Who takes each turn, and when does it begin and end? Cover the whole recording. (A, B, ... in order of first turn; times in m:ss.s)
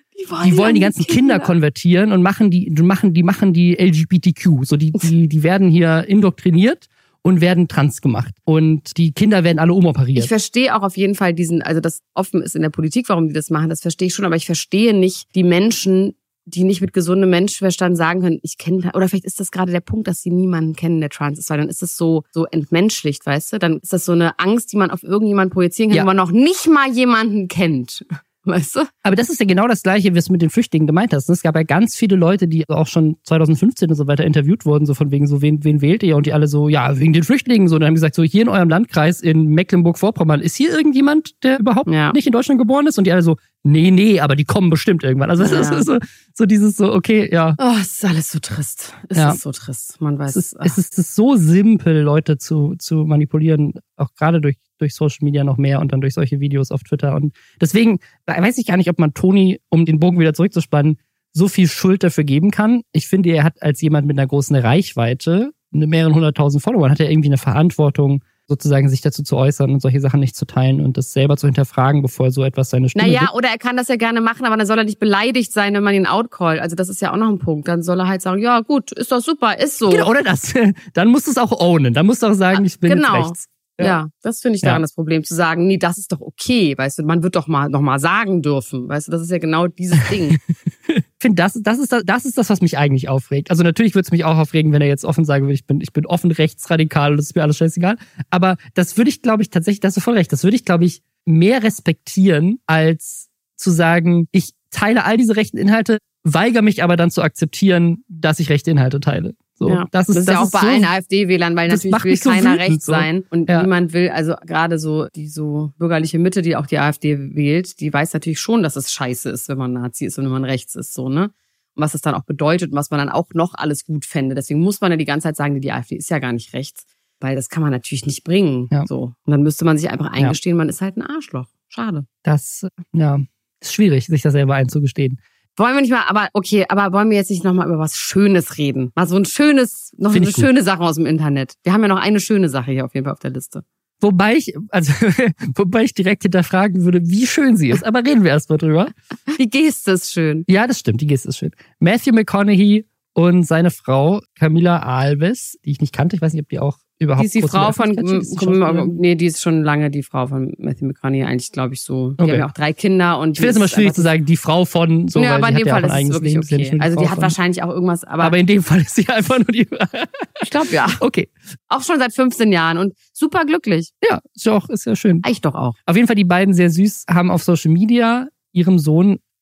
0:00.1-0:01.5 A
0:00.4-0:10.3 B
0:10.1-0:28.9 A
0:29.0-0:47.6 B
0:41.9-0:42.2 A
0:45.4-0:45.9 A
0:47.6-0:50.8 A
0:50.3-1:13.3 B
1:12.9-1:20.1 A
1:19.9-1:23.9 B
1:22.5-1:30.4 A
1:30.9-1:50.9 B
1:49.6-2:12.0 A
1:51.7-1:53.7 B
2:12.2-2:15.2 B
2:15.6-2:23.6 A
2:20.1-2:20.5 B
2:24.0-2:28.9 B
2:29.3-2:30.4 A
2:30.5-2:38.9 B
2:37.2-2:44.1 A
2:42.2-2:42.4 B
2:43.4-2:47.3 B
2:45.1-2:48.3 A
2:48.2-2:51.3 B
2:50.4-2:51.0 A
2:51.7-2:53.9 A
2:54.0-2:55.2 B
2:55.2-2:55.8 A
2:55.8-2:59.2 B